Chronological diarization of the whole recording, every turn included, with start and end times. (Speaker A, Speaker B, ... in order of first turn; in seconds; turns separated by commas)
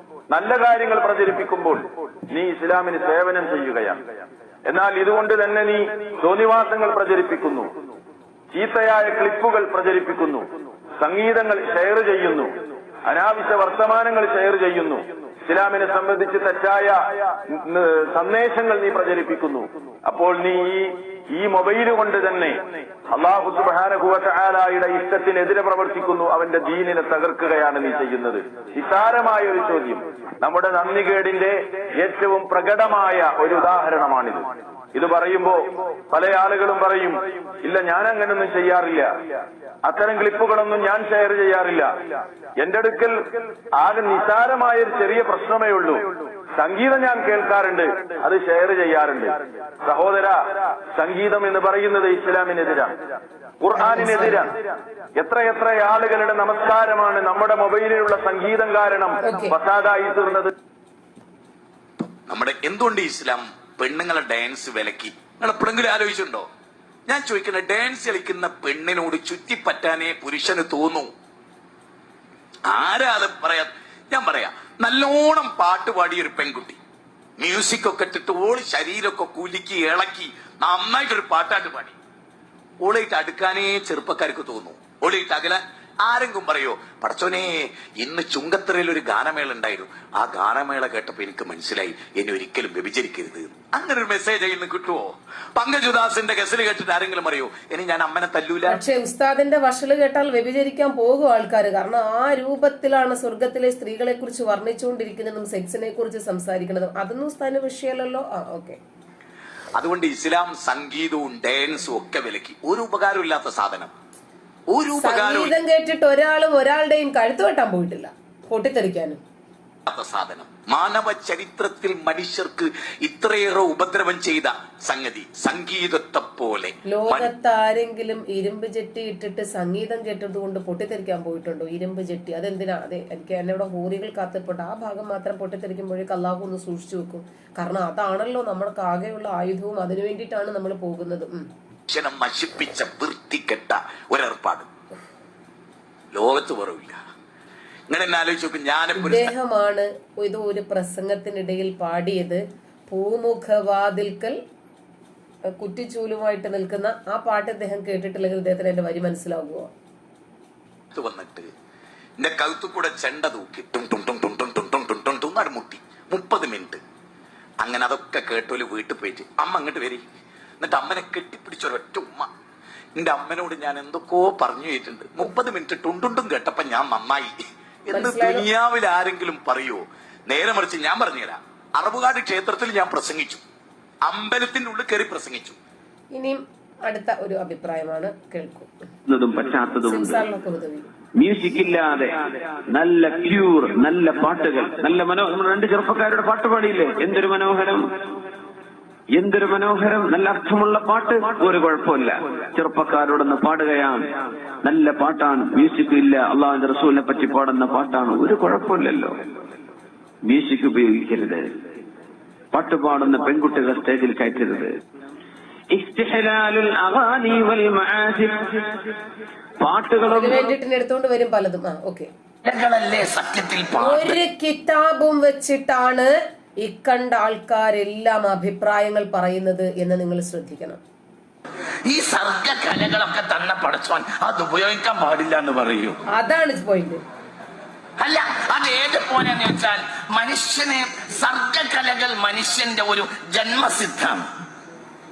Speaker A: 0.3-4.0, Speaker A: 4.7-7.7, Speaker A: 8.5-10.5, Speaker A: 11.0-12.5, Speaker A: 13.1-39.1, Speaker A: 39.8-46.0, Speaker A: 46.6-50.4, Speaker A: 50.9-53.0, Speaker A: 53.6-54.5, Speaker B: 53.8-54.5, Speaker A: 55.2-60.5, Speaker B: 59.2-59.5, Speaker C: 62.3-66.5, Speaker C: 67.1-71.1, Speaker C: 72.7-76.8, Speaker C: 77.4-82.0, Speaker C: 82.8-98.8, Speaker B: 98.7-108.8, Speaker C: 109.8-113.9, Speaker C: 114.7-115.5, Speaker B: 115.0-119.2, Speaker C: 119.9-127.3, Speaker B: 126.9-141.5, Speaker C: 141.9-144.7, Speaker C: 146.1-147.0, Speaker C: 147.9-149.3, Speaker B: 149.0-154.4, Speaker B: 155.6-159.7, Speaker C: 160.9-161.5, Speaker C: 162.2-166.8, Speaker C: 167.6-170.0, Speaker C: 170.6-172.3, Speaker C: 173.0-177.3, Speaker C: 177.9-183.4, Speaker B: 177.9-178.4, Speaker C: 184.0-185.6, Speaker B: 186.1-188.7, Speaker D: 189.2-189.7, Speaker B: 189.8-190.8, Speaker D: 192.8-194.7, Speaker D: 200.5-201.1, Speaker D: 202.6-203.6, Speaker D: 204.8-208.8, Speaker D: 210.5-211.3, Speaker D: 212.6-214.1, Speaker B: 220.0-222.1, Speaker E: 222.4-224.2, Speaker B: 223.8-226.1, Speaker B: 226.6-230.8, Speaker E: 231.8-236.0, Speaker B: 236.1-237.0, Speaker E: 238.0-244.3